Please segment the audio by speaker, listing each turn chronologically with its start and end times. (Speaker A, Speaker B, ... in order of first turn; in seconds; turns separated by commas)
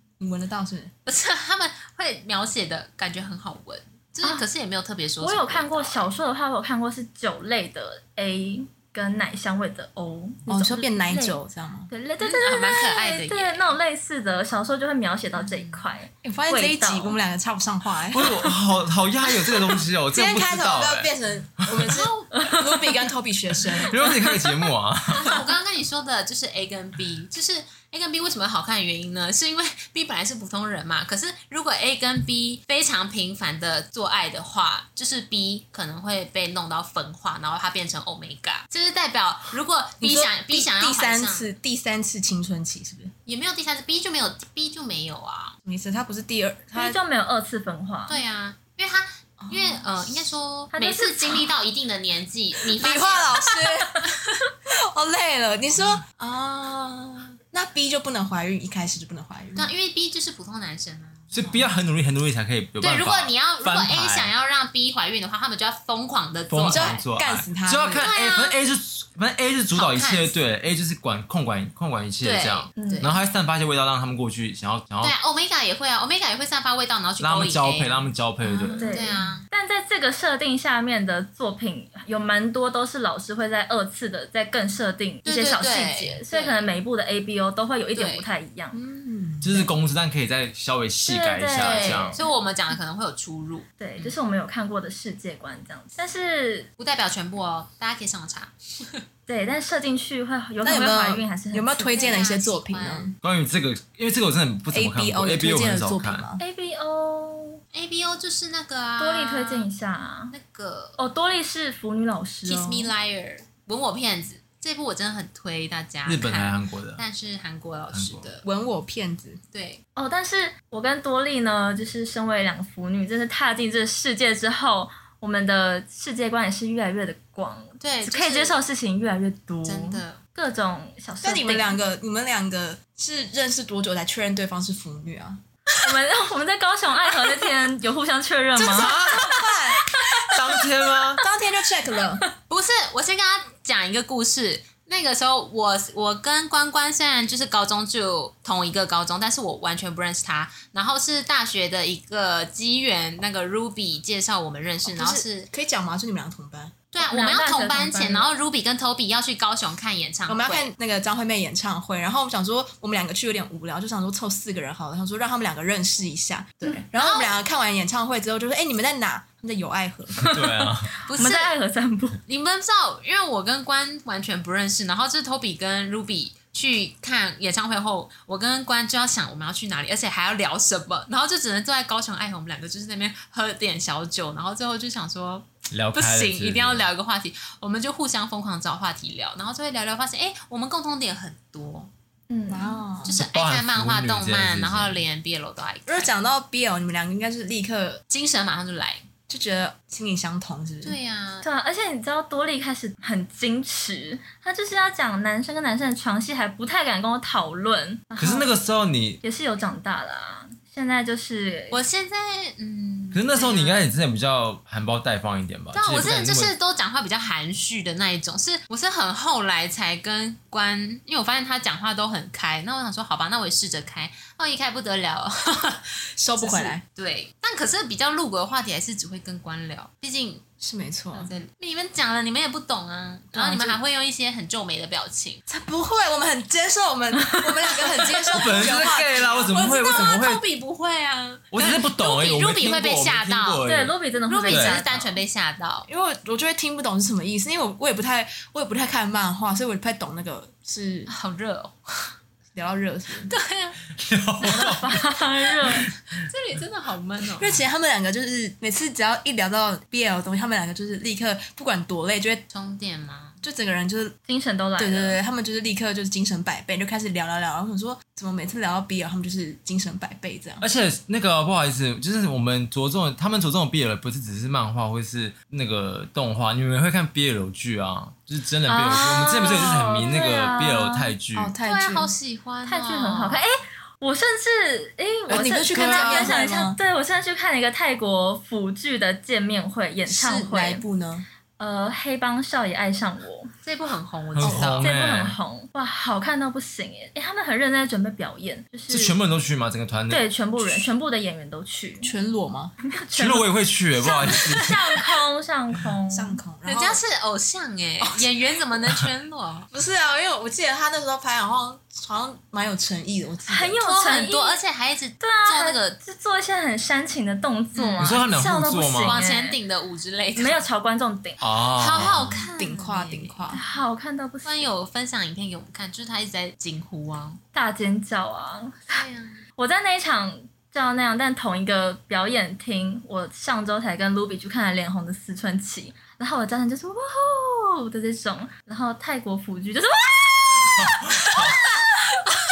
Speaker A: 0.2-0.9, Speaker B: 1.1-6.1, Speaker C: 5.2-11.3, Speaker A: 10.5-11.9, Speaker C: 11.9-17.2, Speaker B: 12.2-13.7, Speaker B: 15.4-15.8, Speaker A: 16.2-18.5, Speaker D: 18.1-21.1, Speaker A: 19.4-24.0, Speaker B: 21.8-22.6, Speaker C: 22.3-23.1, Speaker C: 23.7-24.7, Speaker D: 23.9-25.4, Speaker B: 25.1-41.5, Speaker A: 40.0-43.1, Speaker B: 43.2-45.5, Speaker A: 45.6-47.0, Speaker C: 46.7-48.2, Speaker B: 48.1-54.1, Speaker A: 49.4-50.3, Speaker C: 50.7-51.5, Speaker A: 52.6-59.7, Speaker B: 59.5-61.6, Speaker D: 61.3-64.3, Speaker B: 62.8-67.0, Speaker D: 66.5-75.1, Speaker A: 66.7-68.1, Speaker B: 67.9-68.5, Speaker B: 69.7-70.3, Speaker B: 72.2-73.2, Speaker C: 72.8-73.1, Speaker B: 75.0-79.4, Speaker D: 77.2-78.9, Speaker C: 78.8-88.8, Speaker B: 85.2-86.6, Speaker B: 87.9-88.3, Speaker A: 88.7-89.7, Speaker D: 89.4-92.2, Speaker C: 91.0-92.3, Speaker B: 91.6-94.2, Speaker C: 93.8-96.7, Speaker B: 96.8-99.0, Speaker C: 99.3-102.2, Speaker A: 100.6-103.1, Speaker B: 101.9-103.1, Speaker D: 103.2-106.2, Speaker A: 104.7-106.4, Speaker C: 106.4-107.6, Speaker B: 107.7-109.7, Speaker C: 109.0-110.3, Speaker B: 110.3-111.0, Speaker C: 111.0-112.9, Speaker B: 112.5-118.4, Speaker D: 116.0-117.0, Speaker D: 117.9-118.3, Speaker A: 118.4-119.4, Speaker B: 119.5-119.8, Speaker C: 120.0-131.8, Speaker B: 127.8-128.6, Speaker B: 129.6-130.2, Speaker A: 131.2-135.4, Speaker C: 135.8-139.1, Speaker A: 138.6-139.9, Speaker D: 138.7-139.3, Speaker D: 140.3-141.2, Speaker A: 141.2-142.2, Speaker B: 142.5-155.5, Speaker A: 154.8-156.8, Speaker B: 156.9-160.7, Speaker C: 157.0-158.3, Speaker A: 160.3-170.3, Speaker B: 166.9-167.3, Speaker D: 170.2-170.9, Speaker C: 170.2-172.2, Speaker B: 171.0-171.5, Speaker B: 172.3-191.9, Speaker D: 185.7-186.9, Speaker C: 192.3-192.8, Speaker A: 192.5-193.2, Speaker B: 193.0-196.1, Speaker D: 193.1-195.0, Speaker A: 195.9-198.0, Speaker B: 198.1-199.0, Speaker A: 199.3-201.0, Speaker B: 200.8-201.4, Speaker C: 201.4-208.5, Speaker D: 208.2-209.2, Speaker C: 209.2-211.8, Speaker B: 211.7-213.8, Speaker D: 213.1-216.5, Speaker B: 215.7-225.9, Speaker A: 226.2-226.8, Speaker B: 226.4-230.4, Speaker A: 230.6-231.3, Speaker B: 231.1-235.4, Speaker A: 233.3-233.8, Speaker A: 235.5-240.1, Speaker C: 237.4-237.7, Speaker D: 238.3-240.4, Speaker B: 238.4-243.6, Speaker D: 241.5-243.9, Speaker C: 243.6-245.2, Speaker B: 244.3-245.9, Speaker D: 244.4-244.8, Speaker A: 245.9-251.1, Speaker B: 251.1-252.1, Speaker A: 252.5-253.3, Speaker B: 253.3-253.8, Speaker D: 254.0-254.8, Speaker C: 254.4-255.9, Speaker B: 256.1-257.6, Speaker A: 257.4-262.4, Speaker B: 262.5-263.4, Speaker A: 263.4-264.1, Speaker C: 264.3-265.2, Speaker A: 264.8-270.6, Speaker D: 270.6-281.5, Speaker C: 278.7-281.1, Speaker A: 281.3-282.1, Speaker B: 281.6-283.4, Speaker C: 282.6-290.8, Speaker A: 285.3-286.8, Speaker D: 285.7-286.4, Speaker A: 290.1-291.2, Speaker C: 291.6-293.5, Speaker B: 293.6-294.9, Speaker D: 294.3-295.4, Speaker A: 294.4-294.8, Speaker C: 294.8-299.1, Speaker D: 298.9-300.2, Speaker C: 300.1-302.1, Speaker A: 302.0-302.7, Speaker C: 302.9-306.4, Speaker D: 303.1-304.8, Speaker B: 304.2-304.8, Speaker A: 306.1-307.0, Speaker B: 306.6-309.7, Speaker A: 308.0-308.3, Speaker A: 309.7-313.8, Speaker C: 313.5-314.6, Speaker B: 313.8-315.9, Speaker C: 315.2-319.6, Speaker B: 317.7-318.2, Speaker D: 318.0-319.2, Speaker B: 319.0-320.6, Speaker C: 320.4-321.4, Speaker D: 321.4-322.4, Speaker B: 321.7-323.6, Speaker A: 322.0-323.6, Speaker C: 323.5-324.7, Speaker B: 324.4-327.4, Speaker C: 327.5-329.0, Speaker B: 328.9-329.4, Speaker C: 329.6-341.4, Speaker D: 340.6-341.6